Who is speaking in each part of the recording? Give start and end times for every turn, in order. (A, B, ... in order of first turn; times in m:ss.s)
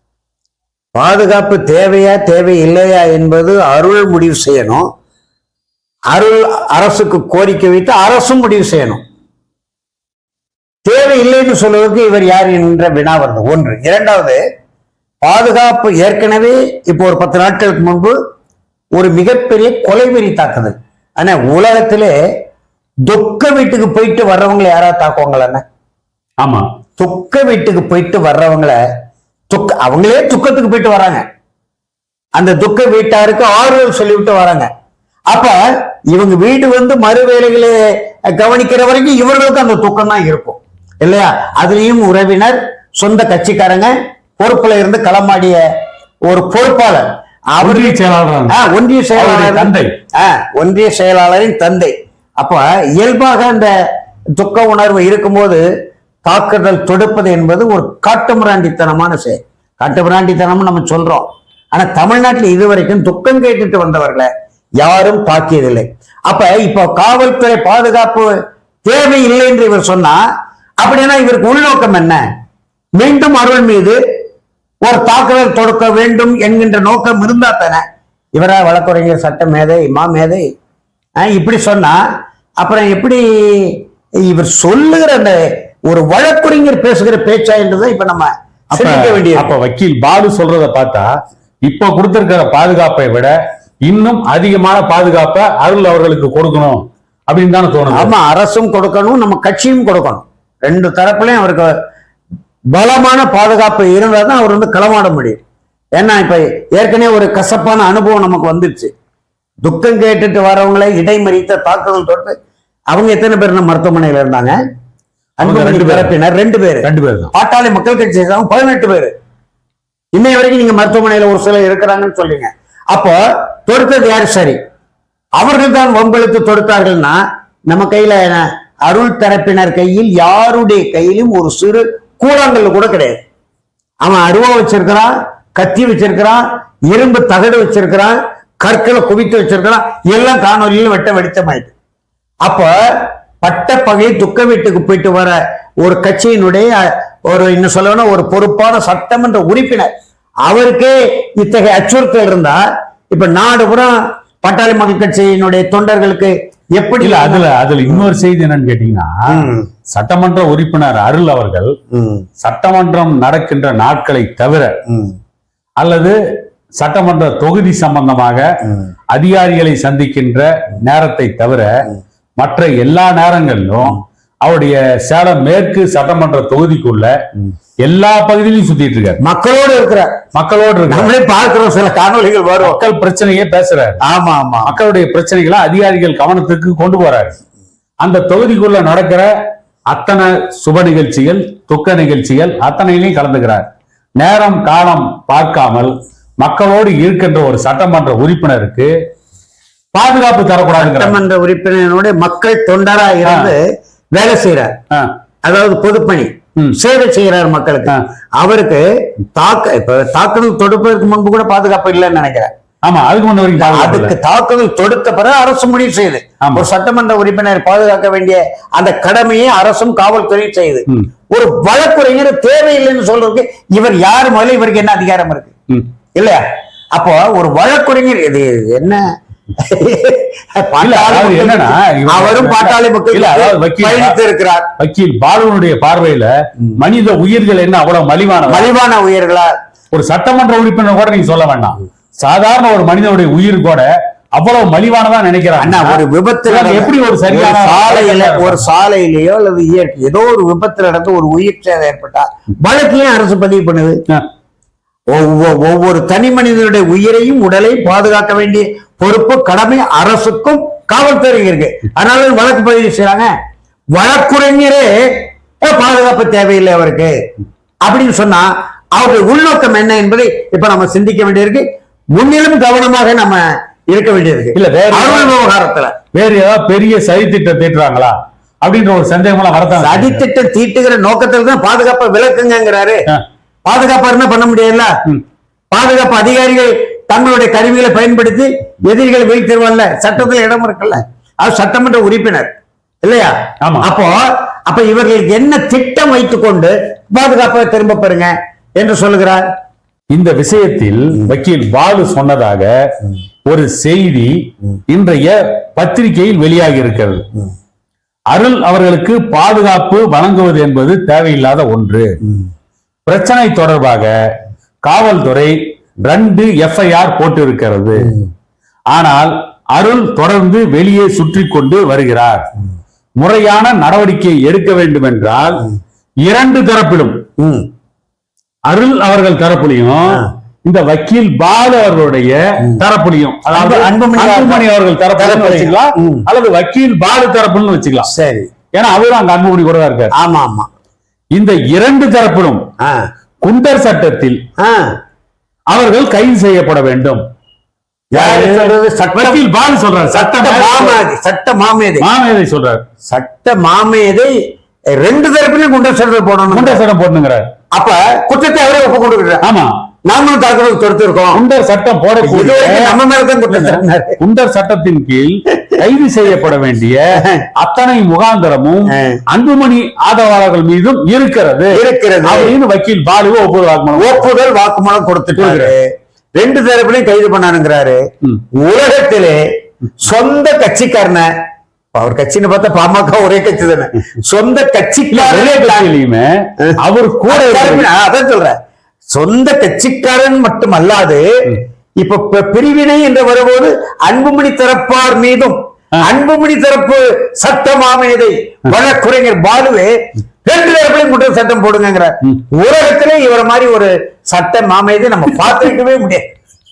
0:00.9-0:04.9 A
0:06.1-0:09.0 A
0:10.8-0:14.4 A
0:15.2-0:18.2 A
0:19.0-0:22.1 A
0:23.1-0:25.6 A
0:26.4-0:26.7 B
0:27.0-0:28.8 A
0:29.5-0:31.2 A
0:32.3-0:34.7 A
0:35.3-0:45.6 A
0:46.2-0:48.0 A
0:47.6-0:48.6 B
0:48.5-0:53.7 A
0:49.1-0:49.9 B
0:54.4-0:55.6 A
0:56.2-1:08.3 A
1:08.8-1:10.2 A
1:10.8-1:12.2 A
1:13.0-1:14.0 A
1:14.8-1:17.8 A
1:18.3-1:20.5 A
1:21.2-1:22.0 A
1:22.6-1:29.5 A
1:28.7-1:31.1 B
1:31.6-1:33.3 B
1:33.8-1:38.1 B
1:37.9-1:41.7 A
1:42.7-1:45.4 A
1:46.0-1:48.9 A
1:49.6-1:52.4 A
1:52.9-1:54.6 A
1:55.4-1:59.1 A
1:55.4-1:56.1 B
1:56.8-1:57.3 B
2:00.1-2:04.6 A
2:05.4-2:13.2 A
2:14.0-2:21.7 A
2:22.4-2:29.9 A
2:30.4-2:38.1 A
2:37.0-2:41.7 B
2:39.3-2:39.7 A
2:41.9-2:42.2 A
2:42.4-2:44.8 B
2:44.9-2:45.2 A
2:45.8-2:46.2 B
2:46.8-2:48.4 B
2:49.1-2:57.1 B
2:57.8-2:59.2 B
2:59.2-3:00.1 A
3:00.3-3:01.1 B
3:00.9-3:02.8 A
3:02.6-3:04.0 B
3:04.0-3:04.7 A
3:04.6-3:07.4 B
3:08.0-3:09.3 B
3:09.9-3:13.6 B
3:14.2-3:18.9 B
3:19.9-3:21.2 B
3:20.8-3:24.7 A
3:23.2-3:23.5 B
3:25.4-3:32.5 A
3:32.8-3:34.1 B
3:33.6-3:45.5 A
3:46.2-3:46.4 A
3:46.9-3:49.0 A
3:49.6-3:54.7 A
3:50.8-3:54.1 B
3:54.8-3:58.7 B
3:58.5-3:59.5 A
3:59.9-4:08.6 B
4:05.6-4:14.0 A
4:15.1-4:23.3 A
4:23.9-4:27.2 A
4:27.8-4:35.9 A
4:34.5-4:35.3 B
4:36.1-4:40.2 B
4:39.7-4:43.0 A
4:43.6-4:44.9 A
4:45.7-4:52.5 A
4:53.0-4:59.4 A
4:53.6-4:53.9 B
5:00.1-5:02.7 B
5:03.4-5:04.4 B
5:04.9-5:07.2 B
5:08.3-5:12.1 B
5:13.0-5:14.1 B
5:14.8-5:18.1 B
5:18.9-5:22.5 B
5:23.2-5:25.6 B
5:26.2-5:27.2 B
5:27.4-5:27.7 A
5:28.7-5:38.1 B
5:33.5-5:34.6 A
5:35.2-5:36.2 A
5:38.0-5:38.5 A
5:38.7-5:40.1 B
5:40.1-5:40.7 A
5:41.3-5:42.6 B
5:43.4-5:44.4 B
5:44.6-5:44.9 A
5:45.7-5:47.2 B
5:48.1-5:49.4 A
5:48.1-5:51.0 B
5:50.1-5:52.1 A
5:52.0-5:52.8 B
5:53.1-5:54.3 A
5:55.0-5:56.8 A
5:56.5-5:57.5 B
5:57.7-5:59.4 A
5:59.4-5:59.8 B
6:00.0-6:01.4 A
6:01.3-6:03.0 B
6:02.2-6:04.2 A
6:03.5-6:14.2 B
6:08.9-6:09.2 A
6:11.7-6:12.5 A
6:13.9-6:18.0 A
6:15.4-6:15.7 B
6:18.5-6:19.4 A
6:20.0-6:21.3 A
6:21.9-6:25.9 A
6:25.1-6:27.9 B
6:27.3-6:28.6 A
6:29.1-6:31.2 A
6:32.0-6:39.9 A
6:40.4-6:46.3 A